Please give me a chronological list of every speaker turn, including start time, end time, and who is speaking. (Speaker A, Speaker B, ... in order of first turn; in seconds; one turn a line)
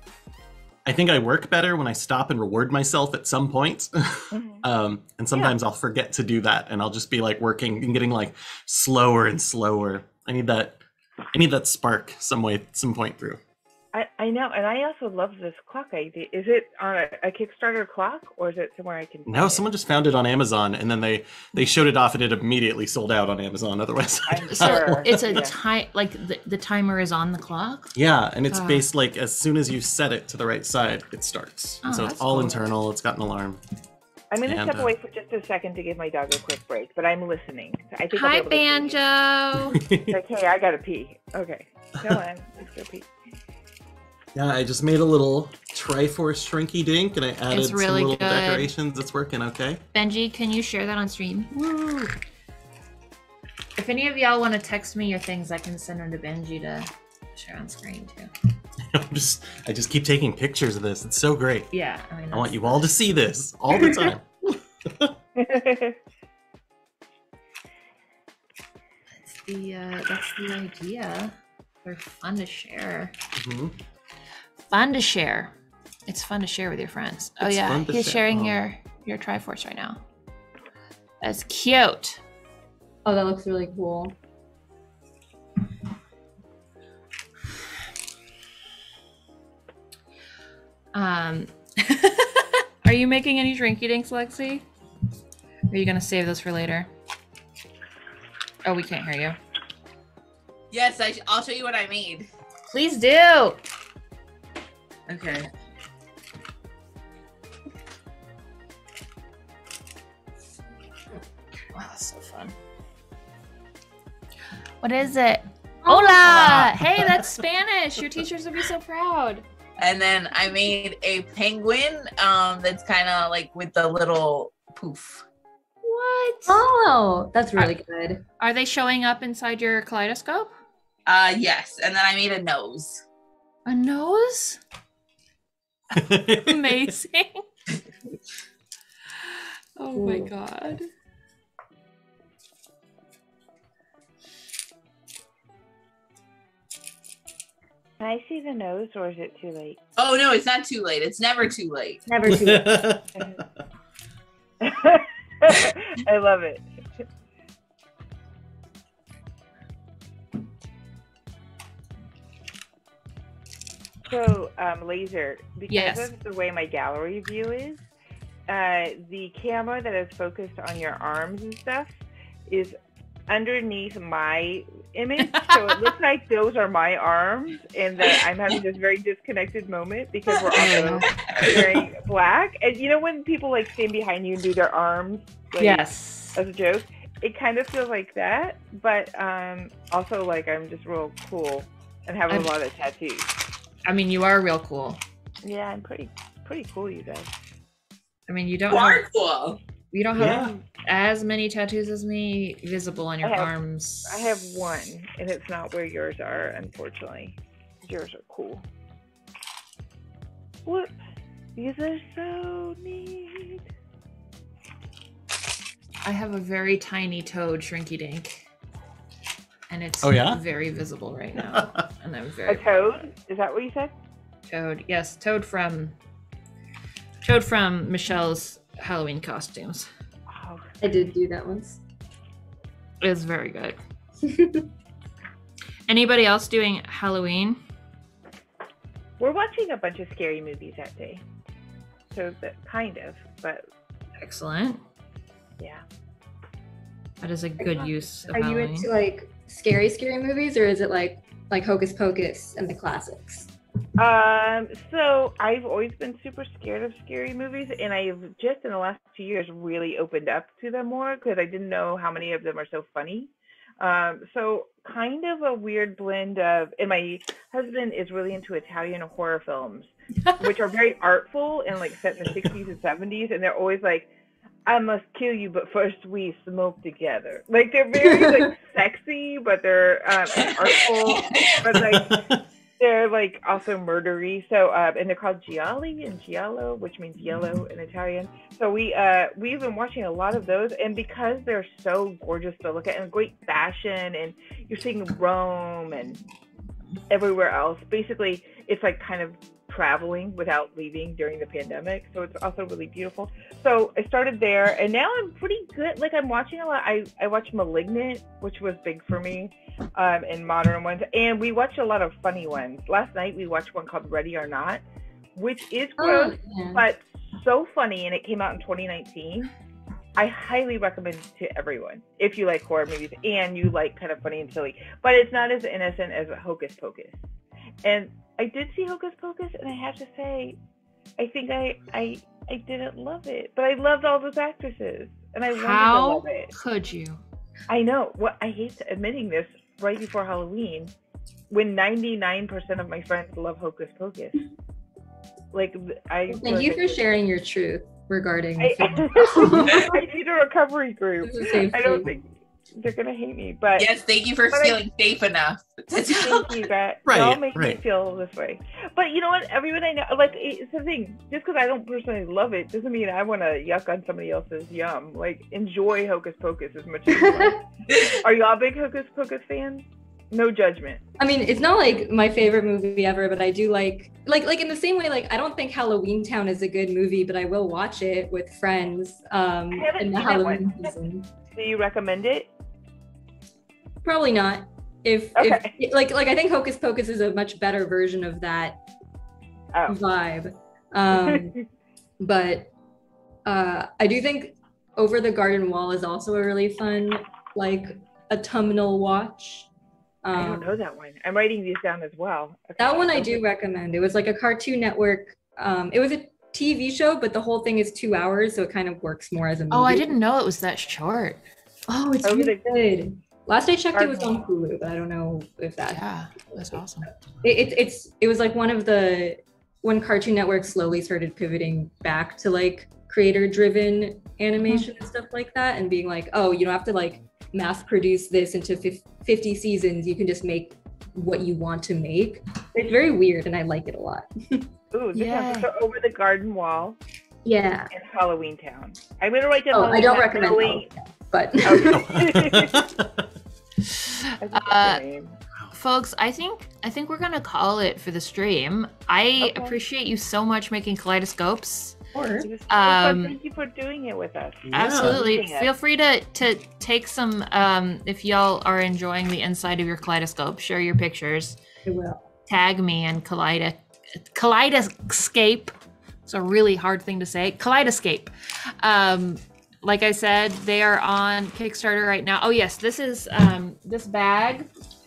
Speaker A: 0.8-10.8
Speaker B: 4.3-4.6
Speaker A: 11.3-13.4
Speaker B: 13.9-19.6
Speaker A: 19.2-25.4
Speaker B: 24.3-25.5
Speaker C: 24.4-27.9
Speaker A: 27.9-33.6
Speaker C: 28.5-28.8
Speaker C: 31.8-32.7
Speaker B: 34.3-39.0
Speaker A: 34.4-34.9
Speaker C: 38.1-39.8
Speaker A: 39.7-40.2
Speaker B: 40.1-43.1
Speaker A: 44.3-49.8
Speaker C: 47.5-48.7
Speaker C: 49.9-52.1
Speaker C: 53.8-58.3
Speaker A: 58.9-61.7
Speaker C: 61.7-62.9
Speaker A: 62.3-65.2
Speaker B: 65.4-66.0
Speaker C: 69.1-73.1
Speaker A: 73.3-73.7
Speaker C: 74.7-75.5
Speaker C: 76.1-80.0
Speaker A: 77.4-78.6
Speaker C: 81.2-82.2
Speaker D: 83.0-84.2
Speaker C: 90.9-94.6
Speaker C: 95.7-96.9
Speaker C: 98.6-99.4
Speaker E: 100.7-102.3
Speaker C: 102.7-103.6
Speaker E: 105.1-105.5
Speaker C: 111.7-112.5
Speaker C: 114.8-119.4
Speaker D: 115.8-116.4
Speaker A: 116.4-117.1
Speaker E: 119.8-125.2
Speaker C: 125.8-126.6
Speaker D: 126.5-128.2
Speaker C: 128.4-130.5
Speaker E: 131.1-133.0
Speaker C: 133.7-134.6
Speaker C: 135.9-137.4
Speaker A: 136.0-136.9
Speaker C: 139.8-140.9
Speaker D: 140.0-140.3
Speaker B: 148.0-149.8
Speaker E: 150.0-152.1
Speaker D: 152.1-152.8
Speaker A: 152.3-153.4
Speaker B: 154.6-156.6
Speaker B: 164.1-167.8
Speaker C: 165.7-166.1
Speaker B: 168.5-171.9
Speaker B: 172.5-172.8
Speaker B: 173.3-185.8
Speaker C: 175.2-175.9
Speaker C: 180.5-181.6
Speaker C: 185.6-186.4
Speaker B: 186.3-193.2
Speaker C: 192.3-192.5
Speaker C: 193.9-195.0
Speaker B: 195.4-197.3
Speaker C: 198.3-199.0
Speaker E: 198.7-199.6
Speaker C: 199.9-204.2
Speaker A: 200.2-200.5
Speaker B: 203.2-203.5
Speaker B: 204.1-208.6
Speaker B: 210.7-210.9
Speaker B: 211.6-213.6
Speaker C: 216.0-218.4
Speaker C: 219.7-222.9
Speaker A: 220.0-220.4
Speaker A: 221.4-221.8
Speaker B: 222.5-223.9
Speaker C: 224.5-225.9
Speaker C: 227.2-229.9
Speaker B: 230.3-230.6
Speaker D: 230.8-231.8
Speaker C: 233.0-233.8
Speaker D: 234.3-234.7
Speaker C: 235.9-237.6
Speaker B: 239.2-241.2
Speaker B: 242.1-243.6
Speaker C: 244.2-244.8
Speaker C: 247.2-248.9
Speaker D: 247.6-253.5
Speaker B: 254.0-274.1
Speaker B: 274.6-282.2
Speaker D: 278.0-278.5
Speaker A: 281.7-282.4
Speaker B: 282.8-296.2
Speaker B: 297.1-314.8
Speaker B: 315.3-319.5
Speaker D: 316.0-316.8
Speaker B: 320.1-327.2
Speaker B: 327.8-330.6
Speaker B: 331.2-336.5
Speaker C: 335.5-337.2
Speaker B: 337.7-340.9
Speaker B: 341.5-344.5
Speaker B: 345.5-347.1
Speaker D: 346.3-350.0
Speaker B: 348.6-353.9
Speaker D: 351.2-352.1
Speaker E: 353.8-356.5
Speaker B: 354.5-354.8
Speaker B: 356.2-371.0
Speaker A: 357.0-357.8
Speaker D: 367.1-367.6
Speaker D: 371.2-381.3
Speaker B: 379.7-380.9
Speaker B: 381.5-382.5
Speaker D: 384.0-388.8
Speaker B: 385.4-385.8
Speaker B: 389.7-390.0
Speaker D: 389.9-391.6
Speaker B: 391.1-391.6
Speaker D: 392.2-392.7
Speaker D: 393.4-399.7
Speaker D: 400.2-400.7
Speaker B: 400.3-403.4
Speaker D: 402.8-410.1
Speaker C: 409.7-411.4
Speaker D: 411.9-416.0
Speaker B: 412.2-412.6
Speaker B: 413.9-414.5
Speaker C: 415.9-417.1
Speaker D: 417.4-434.7
Speaker C: 424.6-424.9
Speaker B: 434.9-437.0
Speaker C: 435.1-435.7
Speaker D: 437.4-437.9
Speaker B: 437.9-440.9
Speaker D: 439.7-442.1
Speaker B: 441.6-442.9
Speaker A: 441.9-443.3
Speaker C: 443.9-445.0
Speaker B: 444.4-445.4
Speaker C: 445.7-452.0
Speaker B: 449.4-449.8
Speaker D: 452.1-452.5
Speaker B: 452.4-455.7
Speaker C: 452.7-453.4
Speaker A: 454.6-455.3
Speaker C: 454.7-461.6
Speaker D: 461.8-462.3
Speaker C: 462.5-465.7
Speaker C: 466.2-468.3
Speaker C: 468.8-474.7